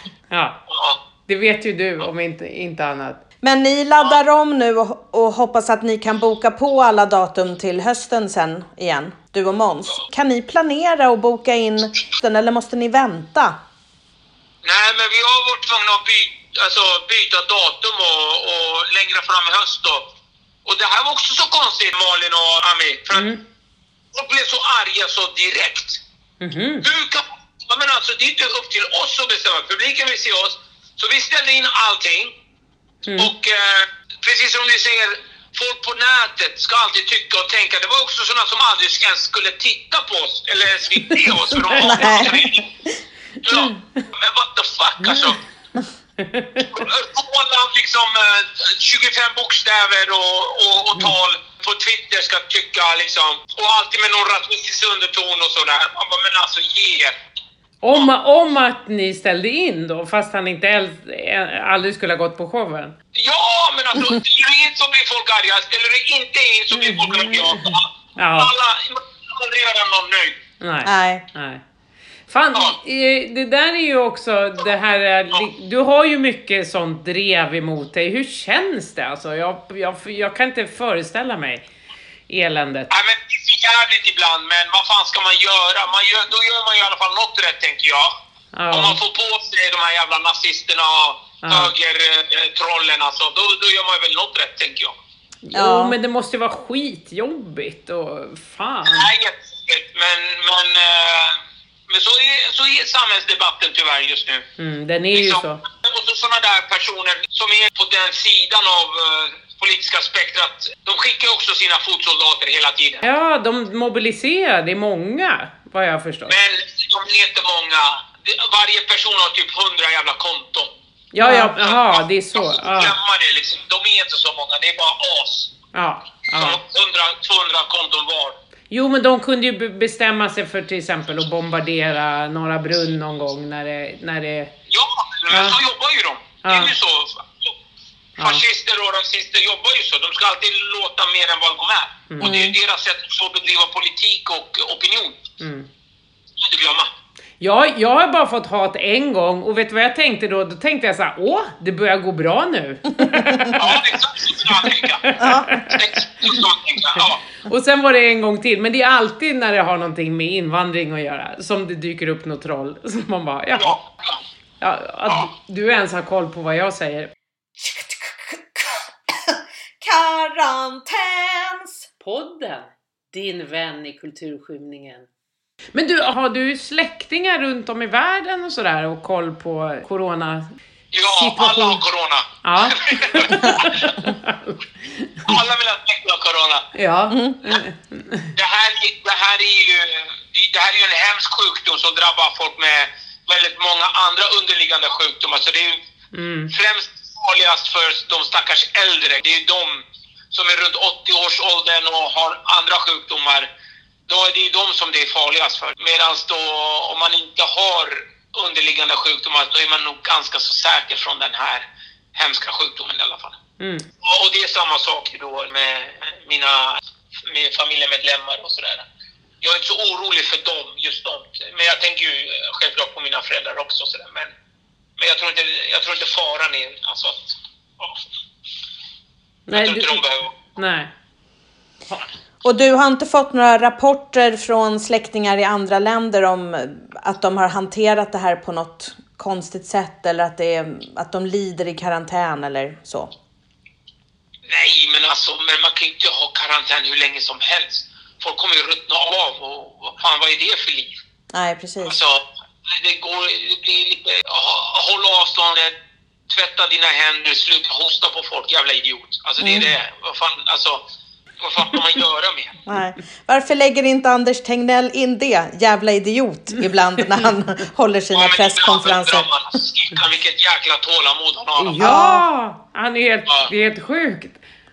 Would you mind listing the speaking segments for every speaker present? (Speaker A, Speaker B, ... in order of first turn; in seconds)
Speaker A: 0.3-0.6, 1.3-3.2, 23.1-23.4, 26.4-26.9, 33.1-33.3, 41.1-42.4, 45.0-45.4, 46.2-46.8, 57.8-63.0, 66.7-68.5, 70.6-71.6, 72.3-81.7, 82.3-82.9, 88.5-89.0, 91.4-91.7, 95.5-99.1, 104.6-105.6, 113.0-116.3, 121.1-123.0, 125.7-126.6, 128.7-134.5, 135.3-135.6, 136.4-136.7, 138.2-138.4, 145.4-145.7, 147.4-153.8, 154.5-156.4, 157.0-163.8, 164.6-167.1, 172.0-175.1, 175.8-180.5, 181.1-181.8, 182.4-185.3, 186.7-188.3, 196.1-196.5, 213.6-213.9, 229.5-230.0, 230.5-230.9, 271.6-274.4
Speaker B: 0.7-1.0, 14.6-20.1, 20.6-23.3, 24.1-26.0, 26.8-32.3, 33.2-42.6, 43.4-45.4, 46.6-57.1, 63.1-70.4, 82.9-88.1, 88.7-95.0, 98.9-104.5, 105.1-113.0, 116.3-120.7, 121.6-125.5, 126.3-128.4, 134.7-137.5, 138.2-145.2, 146.4-146.9, 153.6-157.2, 163.6-164.2, 180.9-184.0, 185.2-186.7, 188.3-195.8, 196.5-203.5, 204.1-213.4, 214.0-218.9, 219.4-224.3, 225.0-228.0, 229.5-230.4, 244.5-250.9, 251.8-255.8, 256.3-260.8, 261.4-262.6, 268.1-271.9
Speaker C: 3.4-13.6, 41.8-42.5, 70.8-71.2, 95.5-96.0, 121.2-121.5, 142.2-142.6, 153.1-153.5, 155.2-155.6, 187.1-187.4, 232.4-243.1, 251.3-252.0, 259.4-259.7, 262.7-269.3, 271.8-272.2
Speaker D: 167.6-171.8